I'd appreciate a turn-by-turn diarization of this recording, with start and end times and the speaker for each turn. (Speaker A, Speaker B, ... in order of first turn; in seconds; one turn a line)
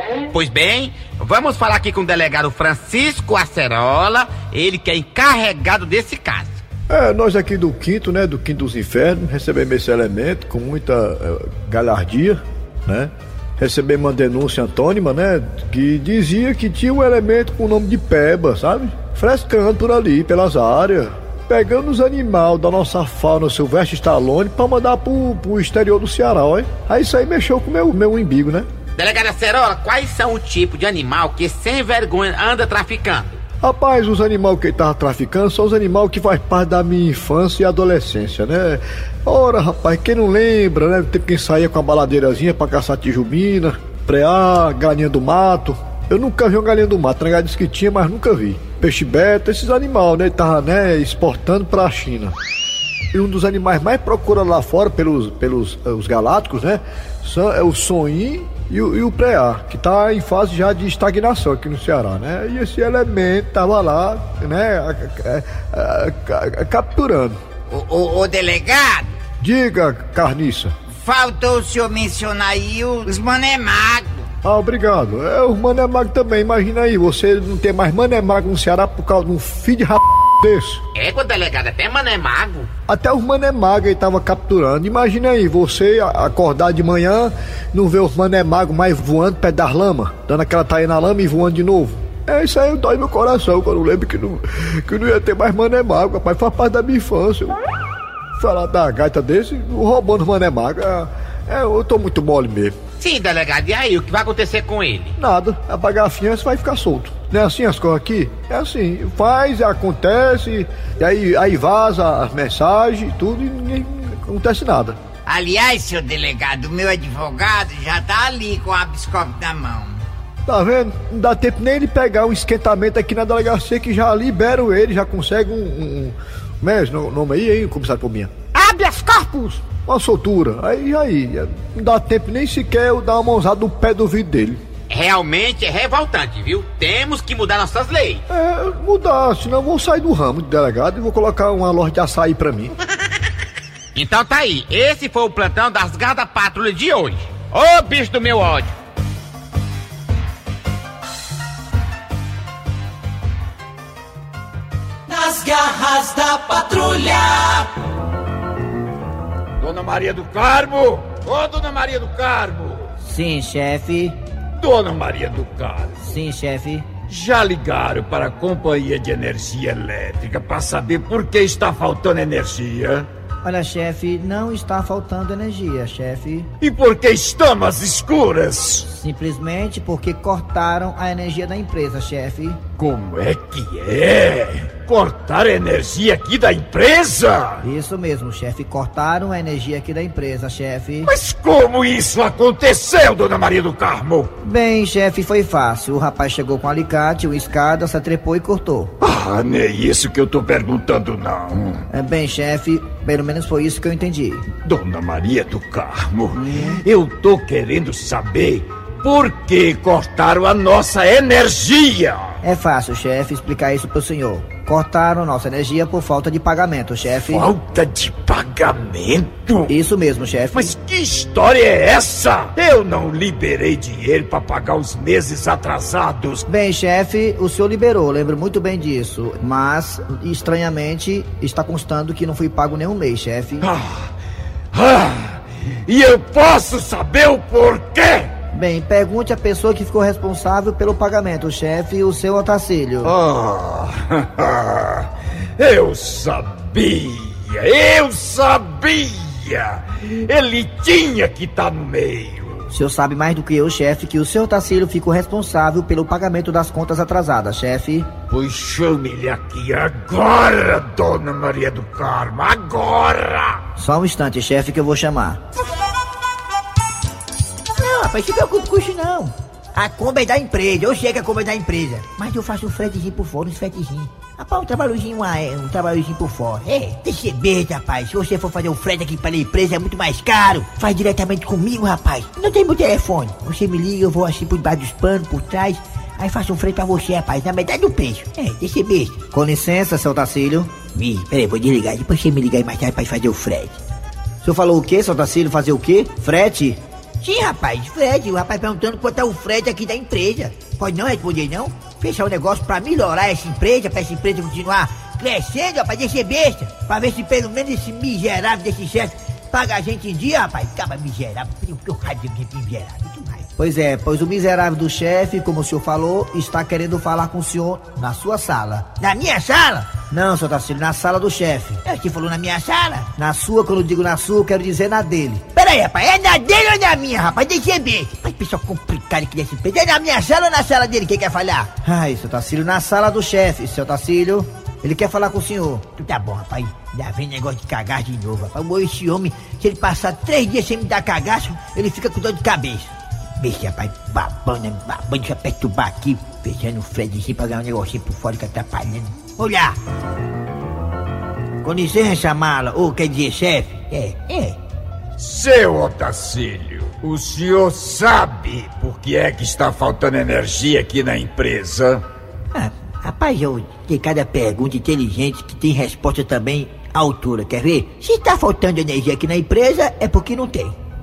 Speaker A: 0.3-6.6
Speaker B: 6.9-28.7
Speaker A: 29.0-33.4
Speaker B: 33.6-52.3
Speaker B: 53.1-67.4
Speaker C: 67.7-69.1
Speaker B: 69.4-70.7
Speaker C: 70.9-74.3
Speaker B: 74.4-80.8
Speaker A: 81.0-82.7
Speaker B: 82.9-97.6
Speaker B: 98.4-102.8
Speaker A: 103.0-105.1
Speaker B: 105.2-115.0
Speaker C: 115.2-120.0
Speaker B: 120.5-128.3
Speaker A: 128.7-129.4
Speaker B: 129.8-134.6
Speaker A: 134.9-138.2
Speaker B: 138.3-142.7
Speaker A: 143.9-148.7
Speaker D: 155.3-157.4
Speaker E: 159.6-162.9
Speaker F: 163.0-164.2
Speaker E: 164.6-165.9
Speaker F: 166.0-166.9
Speaker E: 167.1-173.1
Speaker F: 173.4-176.5
Speaker E: 176.6-178.8
Speaker F: 178.9-182.6
Speaker E: 182.8-187.6
Speaker F: 187.6-191.1
Speaker E: 191.1-194.3
Speaker F: 194.4-198.9
Speaker E: 199.0-201.8
Speaker F: 201.9-204.5
Speaker E: 204.6-212.3
Speaker F: 206.3-206.8
Speaker F: 212.4-217.5
Speaker E: 217.2-219.7
Speaker F: 219.7-220.7
Speaker E: 220.5-226.4
Speaker F: 226.5-233.7
Speaker E: 233.6-234.1
Speaker E: 234.7-238.3
Speaker F: 238.5-243.1
Speaker E: 243.0-252.6
Speaker F: 252.7-258.1
Speaker E: 258.3-263.6
Speaker F: 263.8-265.4
Speaker G: 267.8-289.2
Speaker F: 289.3-290.7
Speaker G: 290.9-293.8
Speaker F: 294.4-296.8
Speaker G: 297.2-313.5
Speaker F: 313.6-319.0
Speaker G: 319.0-320.0
Speaker F: 320.1-321.8
Speaker G: 321.9-323.1
Speaker F: 323.1-325.5
Speaker G: 325.5-331.7
Speaker F: 331.8-335.9
Speaker G: 335.8-349.8
Speaker G: 351.6-354.6
Speaker E: 355.2-362.0
Speaker G: 362.5-370.8